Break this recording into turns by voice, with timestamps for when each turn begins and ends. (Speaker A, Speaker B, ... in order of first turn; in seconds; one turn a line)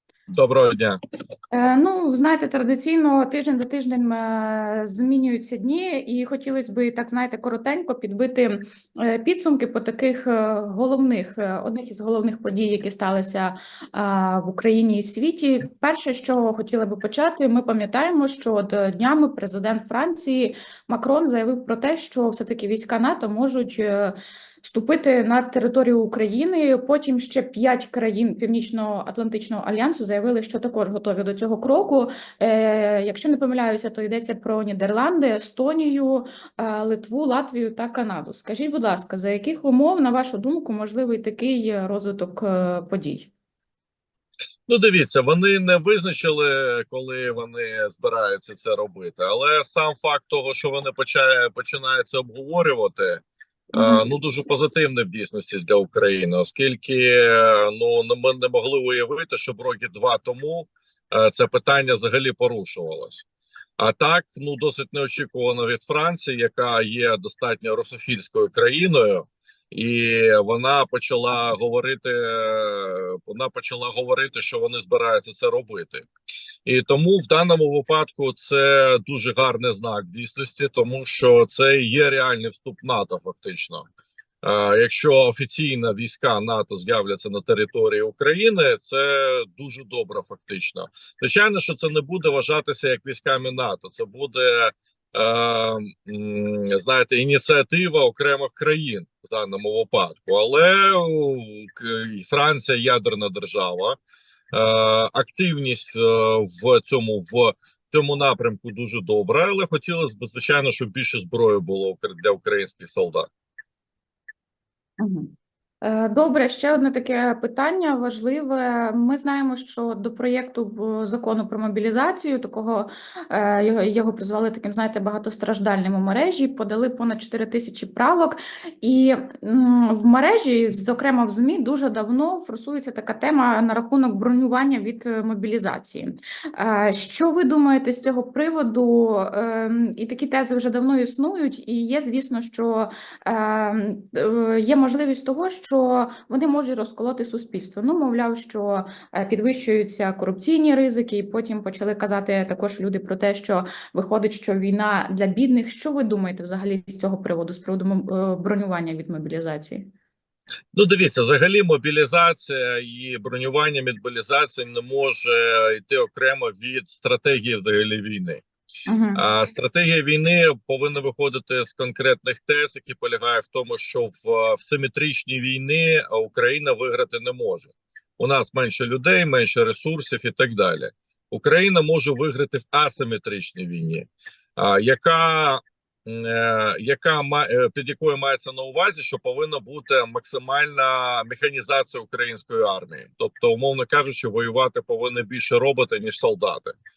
Speaker A: 0.3-1.0
Speaker B: 1.5-43.3
Speaker A: 44.7-53.2
Speaker A: 53.7-63.2
Speaker B: 53.7-54.1
Speaker A: 63.8-76.1
Speaker A: 76.6-83.8
Speaker A: 84.4-104.0
Speaker A: 104.5-113.3
Speaker B: 115.0-159.8
Speaker A: 160.7-168.4
Speaker B: 168.8-169.2
Speaker A: 169.1-196.7